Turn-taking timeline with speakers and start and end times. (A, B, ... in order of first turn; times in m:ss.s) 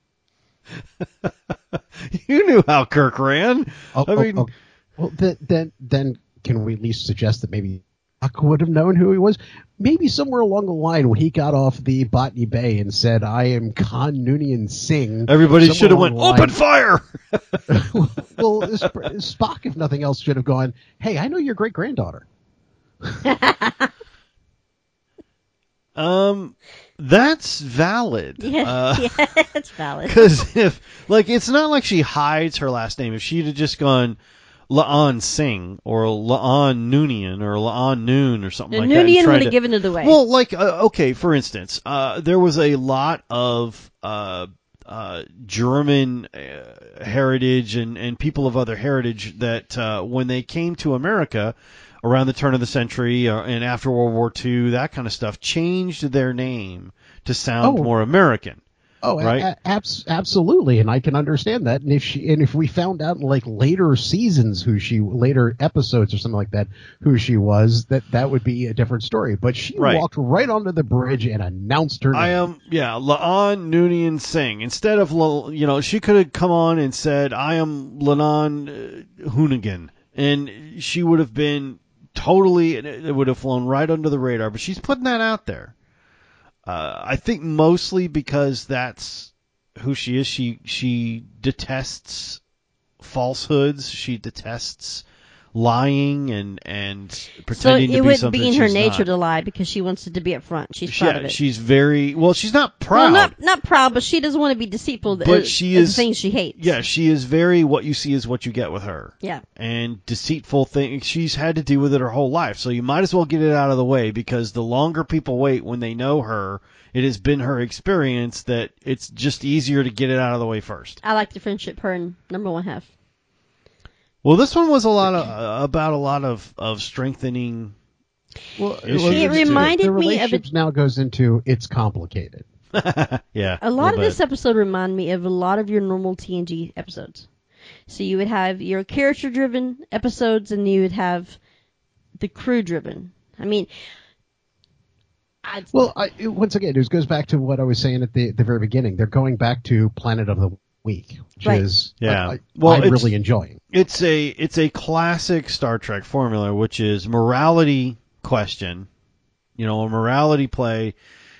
0:01.0-0:04.5 A
0:03.9-0:16.5 B
0:15.2-0:17.7 A
0:17.7-0:22.2 B
0:23.2-0:23.9 C
0:26.0-0:29.2 A
0:28.4-0:30.2 C
0:30.0-0:34.2 A
0:34.7-0:58.6 A
0:38.7-0:40.2 C
0:57.6-0:57.9 B
0:59.0-1:12.4 B
0:59.2-0:59.5 A
1:09.8-1:10.0 A
1:12.1-1:25.7 A
1:26.6-1:32.4 A
1:33.0-1:39.1 A
1:37.5-1:41.4 C
1:40.9-1:43.3 A
1:42.9-1:46.7 C
1:45.1-1:46.0 A
1:46.6-2:01.0 A
2:01.0-2:02.9 C
2:04.2-2:07.7 A
2:08.6-2:12.4 B
2:08.8-2:09.7 A
2:09.0-2:10.4 C
2:12.7-2:14.2 A
2:13.6-2:17.2 C
2:17.9-2:21.4 C
2:22.2-2:23.7 C
2:25.4-2:25.9 C
2:25.7-2:33.6 B
2:32.0-2:33.1 A
2:33.7-2:38.9 A
2:39.6-2:40.9 A